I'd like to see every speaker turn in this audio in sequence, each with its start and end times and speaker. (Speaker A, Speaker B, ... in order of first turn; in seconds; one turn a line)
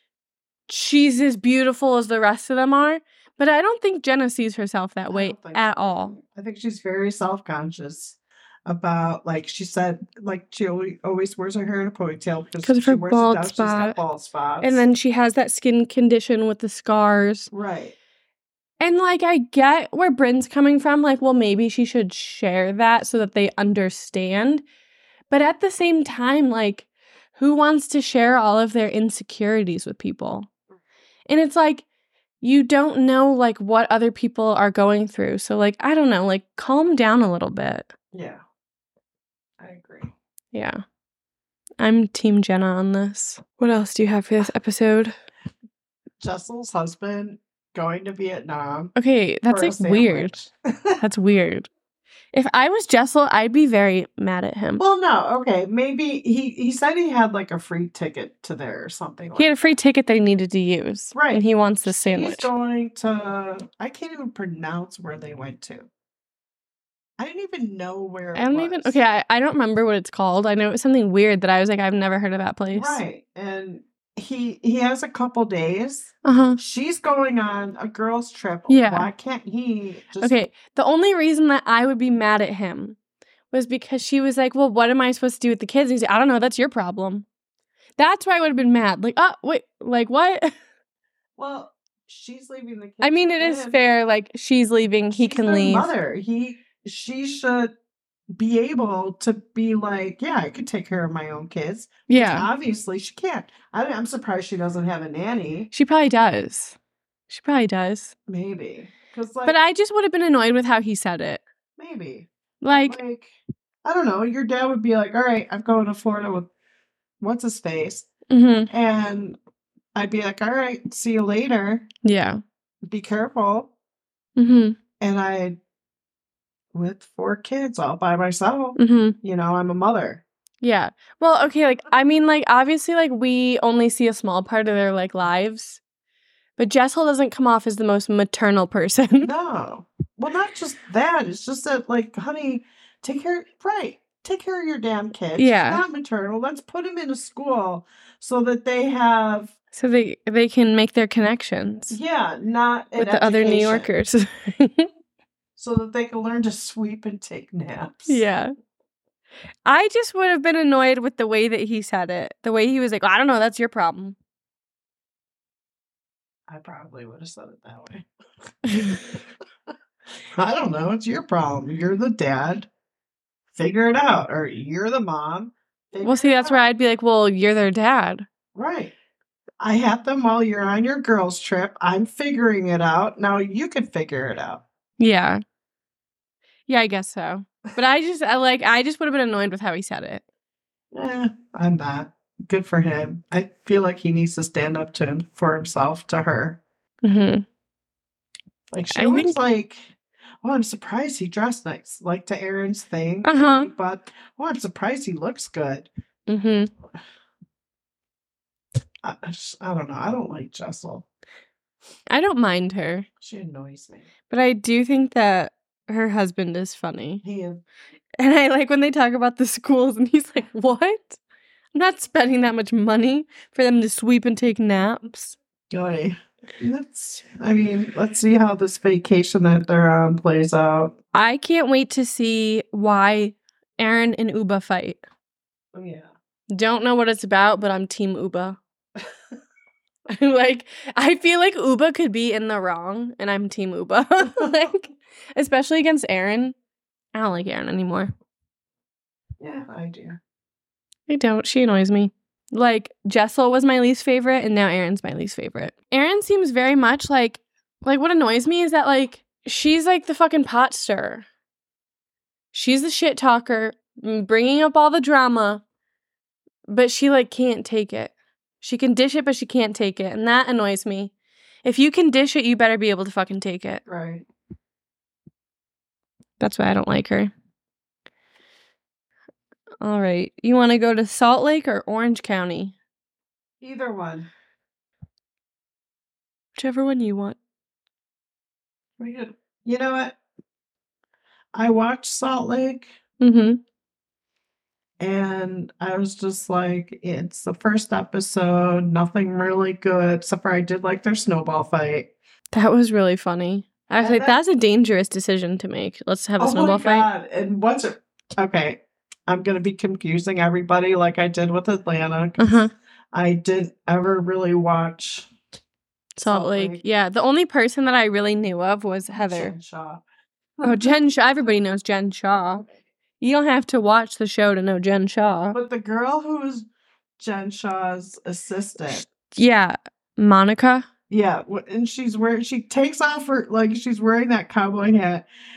Speaker A: 0.7-6.1
Speaker B: 5.1-14.8
Speaker A: 12.6-14.0
Speaker A: 14.6-17.5
Speaker B: 17.5-17.9
Speaker A: 18.8-24.6
Speaker A: 25.3-30.5
Speaker A: 31.3-31.8
Speaker A: 32.4-37.9
Speaker B: 38.1-38.4
Speaker B: 39.6-40.1
Speaker A: 40.5-40.8
Speaker A: 41.8-45.1
Speaker B: 46.2-48.9
Speaker A: 48.9-50.5
Speaker B: 49.5-51.0
Speaker A: 51.0-51.7
Speaker A: 52.3-54.8
Speaker B: 54.8-59.5
Speaker A: 59.4-62.5
Speaker B: 61.1-65.9
Speaker B: 67.2-69.0
Speaker A: 68.3-73.0
Speaker B: 72.7-80.4
Speaker A: 76.2-76.6
Speaker A: 78.7-79.1
Speaker A: 80.2-83.0
Speaker A: 83.5-87.2
Speaker A: 88.0-90.5
Speaker B: 91.4-93.8
Speaker A: 93.0-95.9
Speaker B: 95.1-97.7
Speaker B: 98.3-105.7
Speaker A: 102.1-102.5
Speaker A: 105.7-106.8
Speaker A: 107.3-108.1
Speaker B: 108.3-109.5
Speaker A: 109.4-111.4
Speaker B: 111.8-116.5
Speaker A: 112.6-113.0
Speaker B: 117.2-118.1
Speaker A: 118.3-118.7
Speaker B: 118.7-119.4
Speaker B: 119.9-121.8
Speaker A: 122.0-122.4
Speaker B: 122.8-123.7
Speaker A: 124.4-124.8
Speaker B: 125.0-125.6
Speaker B: 126.7-130.2
Speaker A: 128.8-129.2
Speaker A: 130.6-135.8
Speaker A: 136.6-139.3
Speaker B: 139.2-149.5
Speaker A: 145.3-145.8
Speaker A: 149.7-152.0
Speaker B: 151.9-153.9
Speaker A: 152.9-154.9
Speaker B: 155.6-158.2
Speaker A: 158.1-158.5
Speaker A: 159.7-164.2
Speaker B: 166.5-168.0
Speaker B: 168.7-169.2
Speaker B: 170.3-172.7
Speaker B: 173.5-176.6
Speaker A: 176.0-178.3
Speaker B: 178.5-178.9
Speaker B: 179.6-184.6
Speaker A: 185.0-185.4
Speaker A: 186.7-190.2
Speaker B: 190.9-196.6
Speaker A: 197.0-197.4
Speaker B: 198.7-205.9
Speaker A: 198.9-199.4
Speaker A: 203.2-203.7
Speaker A: 206.3-206.7
Speaker B: 209.0-211.1
Speaker A: 212.1-213.1
Speaker B: 213.2-214.1
Speaker A: 214.3-217.2
Speaker B: 217.2-217.6
Speaker A: 218.2-221.2
Speaker A: 221.7-225.4
Speaker B: 225.7-230.9
Speaker A: 231.1-235.0
Speaker B: 235.7-236.1
Speaker A: 236.5-238.6
Speaker A: 240.1-246.5
Speaker A: 247.1-248.1
Speaker B: 249.4-250.2
Speaker A: 251.1-261.2
Speaker A: 262.5-265.6
Speaker A: 266.7-271.1
Speaker A: 271.6-273.8
Speaker B: 273.9-274.2
Speaker A: 276.4-277.3
Speaker A: 279.8-282.7
Speaker B: 283.6-284.3
Speaker A: 286.6-287.4
Speaker B: 289.0-290.2
Speaker B: 291.5-292.9
Speaker A: 293.2-293.6
Speaker B: 295.0-302.1
Speaker A: 302.5-307.1
Speaker B: 304.0-304.3
Speaker B: 306.4-315.3
Speaker A: 312.4-312.7
Speaker A: 316.1-319.5
Speaker B: 316.2-316.8
Speaker B: 319.3-320.0
Speaker B: 320.6-320.8
Speaker A: 320.6-322.7
Speaker A: 323.2-325.6
Speaker B: 325.5-326.7
Speaker B: 327.2-329.1
Speaker A: 328.9-330.9
Speaker B: 331.1-335.2